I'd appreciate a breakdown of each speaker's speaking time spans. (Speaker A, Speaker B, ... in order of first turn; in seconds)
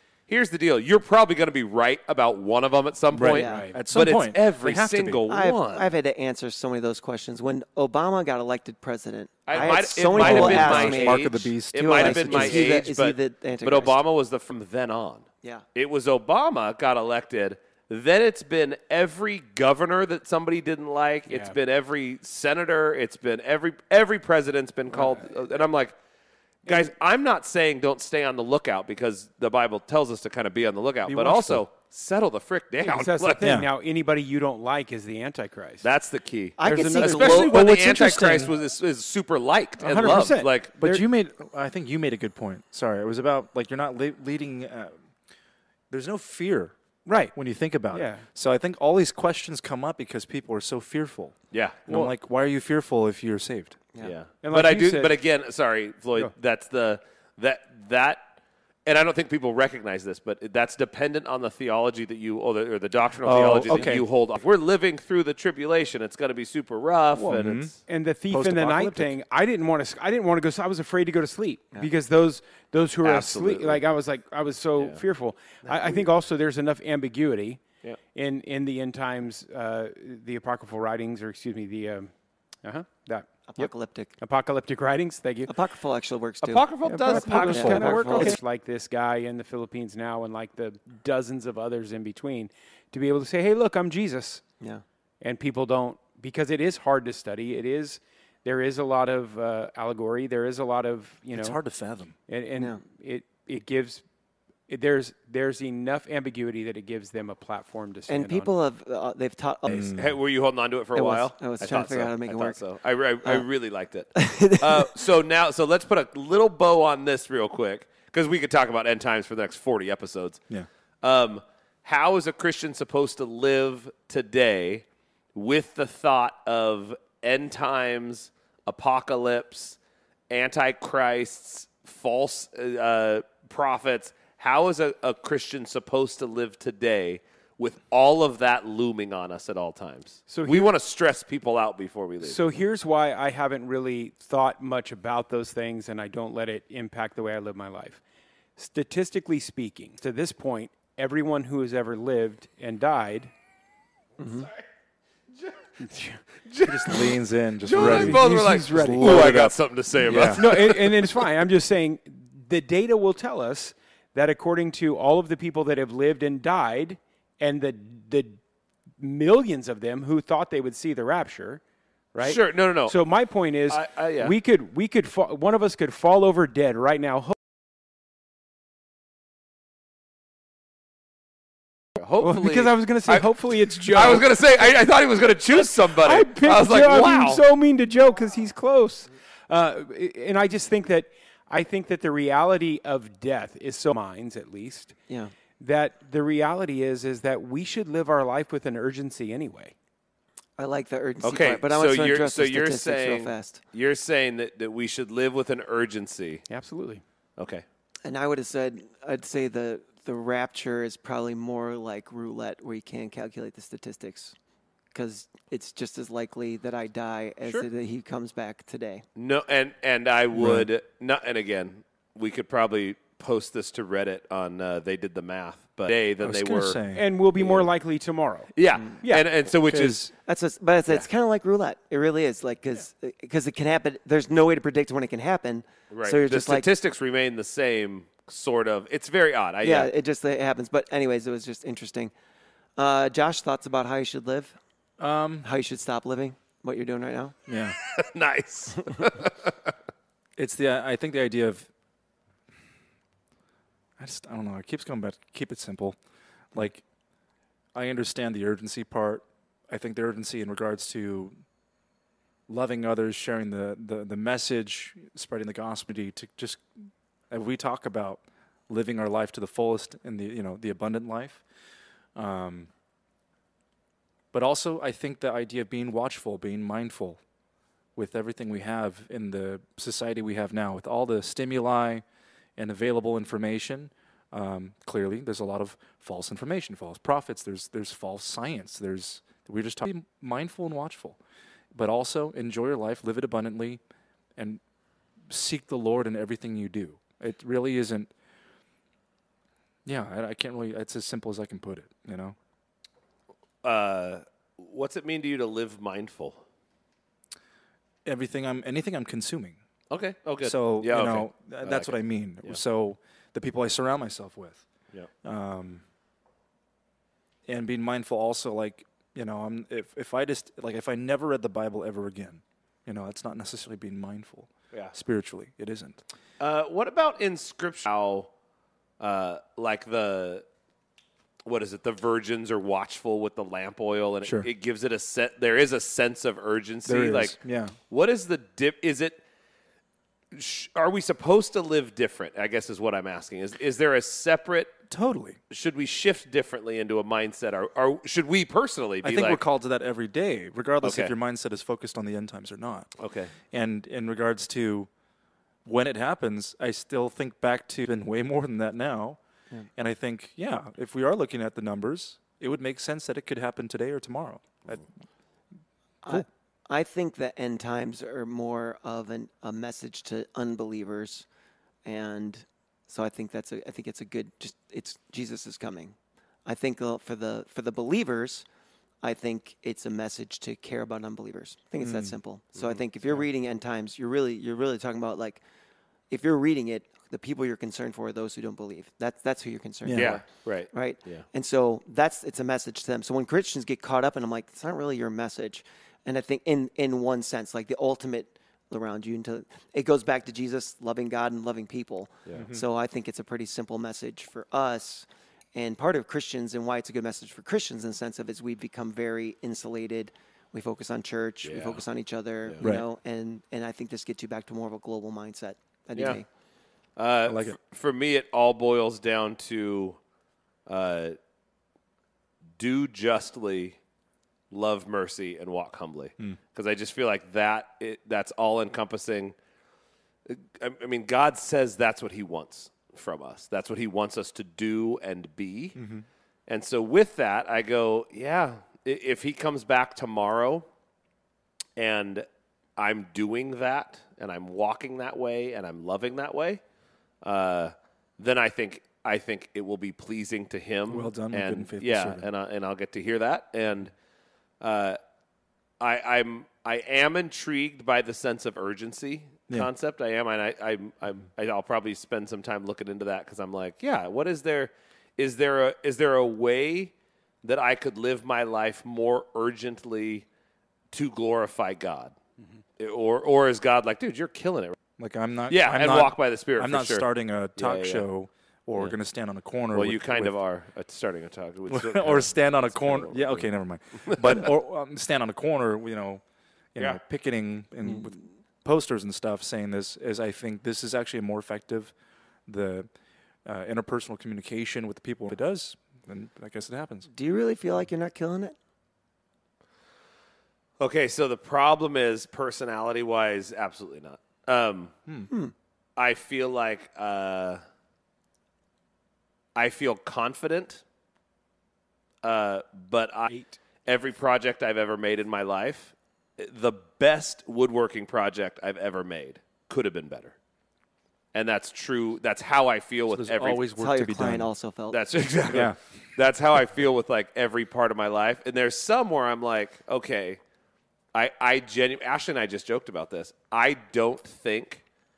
Speaker A: 0.3-5.9, 9.5-25.9, 26.7-33.5, 35.8-40.7, 51.5-51.9, 54.0-58.3, 58.9-67.8, 73.0-73.8, 74.8-75.0, 75.7-76.0, 86.4-88.4, 109.7-120.4, 121.0-129.8, 130.3-142.4, 156.5-161.1, 172.2-173.0, 173.7-174.3, 182.0-187.4, 201.2-206.5, 207.4-207.6, 219.2-226.8, 227.3-227.7, 228.5-230.1, 235.9-239.9, 247.8-249.5, 303.6-306.4, 309.9-312.6, 326.4-328.3, 329.0-330.4, 331.4-337.4, 337.9-339.2, 340.3-344.8, 345.5-349.4, 350.8-351.1, 353.0-353.4, 382.6-382.8, 390.0-391.3, 411.4-411.8, 417.0-420.0, 420.7-421.2, 422.6-423.8, 424.5-429.4, 430.3-435.8, 436.5-440.6, 441.8-446.6, 447.2-453.9, 454.6-455.0, 455.8-470.2, 470.9-472.1, 472.8-474.8, 475.5-478.1, 479.7-483.5, 484.0-484.5, 500.8-504.9, 506.0-507.6, 509.6-510.8, 512.2-513.3, 513.9-520.3, 521.3-523.6, 524.9-530.4, 531.1-534.8
Speaker B: 3.1-5.2, 9.6-12.8, 31.1-31.6, 33.4-33.7, 37.3-38.5, 40.8-45.0, 45.9-46.7, 47.3-53.8, 63.2-64.0, 67.3-67.8, 68.3-69.2, 87.4-88.4, 101.3-102.2, 109.7-110.0, 156.7-160.6, 220.3-220.7, 226.2-227.1, 229.7-230.1, 245.0-245.5, 247.5-247.8, 250.4-251.7, 254.0-256.0, 256.5-256.8, 257.7-261.3, 262.5-266.6, 267.3-271.4, 272.2-272.7, 274.3-277.2, 278.0-282.0, 282.6-291.2, 291.7-293.8, 295.3-298.1, 299.9-302.4, 308.1-309.6, 310.4-314.6, 315.2-315.8, 317.5-326.0, 336.9-337.8, 344.9-345.4, 349.0-352.9, 353.5-354.9, 355.6-359.2, 359.8-364.9, 381.8-382.2, 389.9-390.2, 402.4-402.6, 417.3-417.6, 435.8-436.1, 450.9-452.2, 475.0-480.3, 481.7-486.2, 486.8-491.9, 492.5-492.9, 493.5-497.1, 523.1-524.5, 525.5-525.8
Speaker C: 3.3-3.7, 5.3-14.0, 36.6-37.6, 83.5-84.1, 85.5-87.5, 88.1-88.4, 108.1-110.0, 111.0-112.6, 114.2-115.0, 154.2-154.5, 200.6-203.6, 208.1-214.3, 214.9-219.0, 230.2-236.7, 239.6-242.1, 242.8-244.6, 245.4-247.3, 366.0-371.3, 371.9-375.9, 376.5-378.5, 379.0-385.4, 386.1-416.2, 497.1-498.6, 523.8-525.0
Speaker D: 3.4-3.8, 21.3-21.6, 32.8-35.9, 36.6-37.5, 39.8-41.0, 47.1-47.4, 47.9-48.2, 54.4-55.1, 63.7-63.9, 67.2-77.6, 78.1-85.5, 86.8-94.4, 95.2-101.6, 102.3-104.0, 104.7-108.5, 140.3-140.7, 142.2-148.0, 148.6-153.3, 155.8-156.2, 157.7-159.5, 160.1-168.4, 169.0-171.6, 172.1-177.4, 182.2-184.3, 185.6-194.9, 195.6-199.7, 206.5-207.0, 226.9-228.5, 513.3-513.6